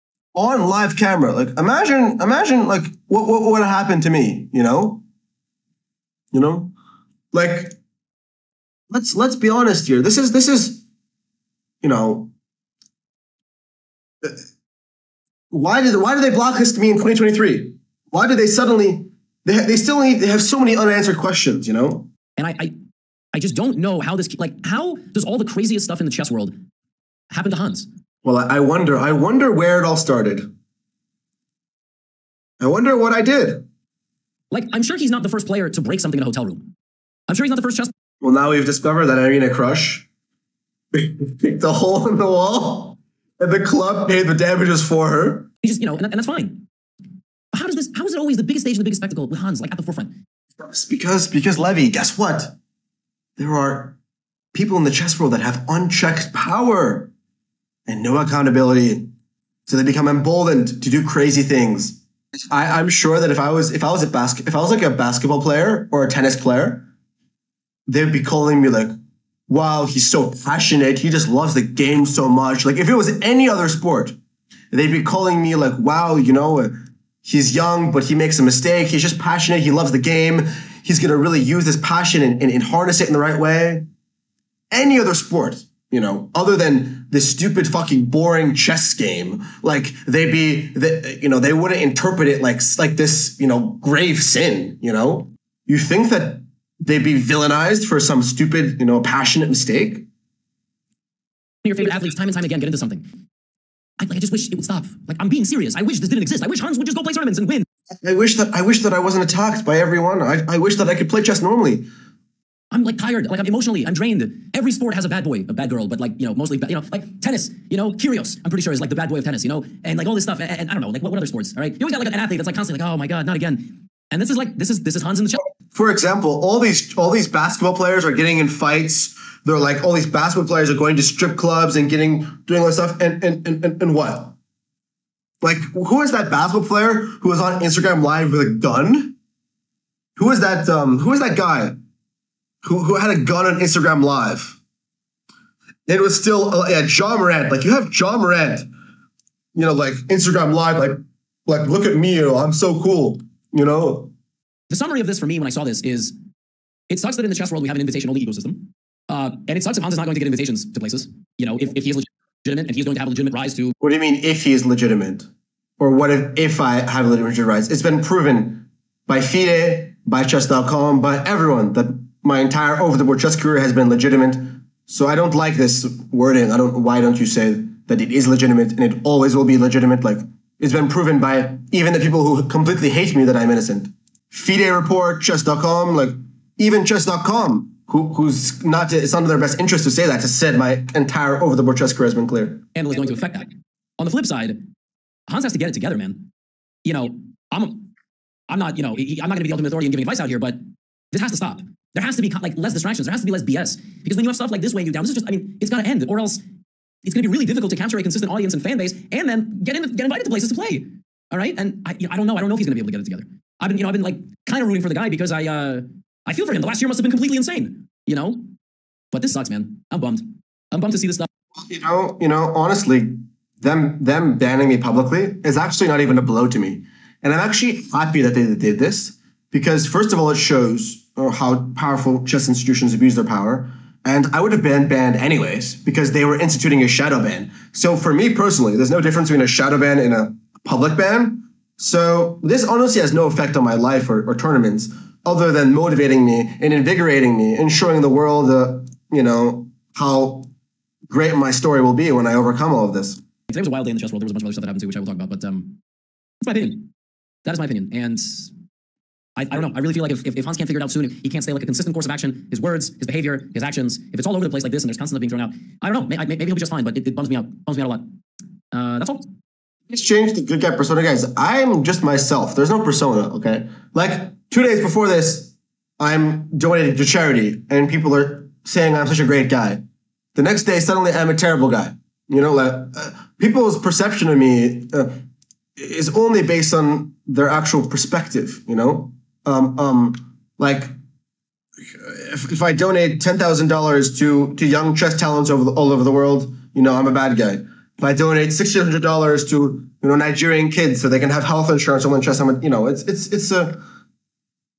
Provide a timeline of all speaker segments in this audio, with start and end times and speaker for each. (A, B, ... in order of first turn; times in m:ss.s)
0:00.3-0:05.0 A
0:06.3-0:06.7 A
0:07.3-0:07.8 A
0:08.9-0:10.8 A
0:11.8-0:12.3 A
0:15.5-0:22.1 A
0:22.4-0:22.7 B
0:23.3-0:26.5 B
0:27.3-0:27.9 B
0:28.2-0:30.5 A
0:32.6-0:33.7 A
0:34.5-0:36.6 B
0:37.3-0:37.9 B
0:38.2-0:40.1 A
0:40.9-0:45.5 A
0:45.6-0:46.6 B
0:47.5-0:50.2 B
0:50.6-0:52.6 A
0:53.4-0:54.0 A
0:54.5-0:57.1 A
0:57.9-0:59.1 A
0:59.7-1:02.0 A
1:02.5-1:06.9 A
1:07.9-1:08.9 A
1:09.5-1:14.2 A
1:14.7-1:23.9 A
1:24.7-1:40.1 A
1:41.6-1:43.0 B
1:44.0-1:47.7 B
1:47.9-1:51.9 A
1:52.7-2:05.4 B
2:05.7-2:14.4 A
2:15.4-2:19.2 A
2:20.2-2:21.8 A
2:22.6-2:24.6 A
2:25.9-2:28.7 A
2:29.6-2:34.1 A
2:34.7-2:36.1 B
2:36.9-2:43.8 B
2:43.8-2:45.3 A
2:45.8-3:12.6 A
3:12.7-3:14.6 B
3:15.3-3:16.3 B
3:16.8-3:17.9 B
3:18.5-3:20.6 B
3:21.1-3:26.4 B
3:27.0-3:38.5 B
3:39.1-3:41.3 B
3:41.5-4:10.5 A
4:11.1-4:13.2 A
4:13.5-4:15.8 B
4:16.4-4:16.9 B
4:17.4-4:18.5 B
4:19.4-4:28.0 B
4:28.7-4:29.3 B
4:29.9-4:39.8 A
4:40.4-4:45.1 A
4:45.8-4:50.9 A
4:51.9-5:03.8 A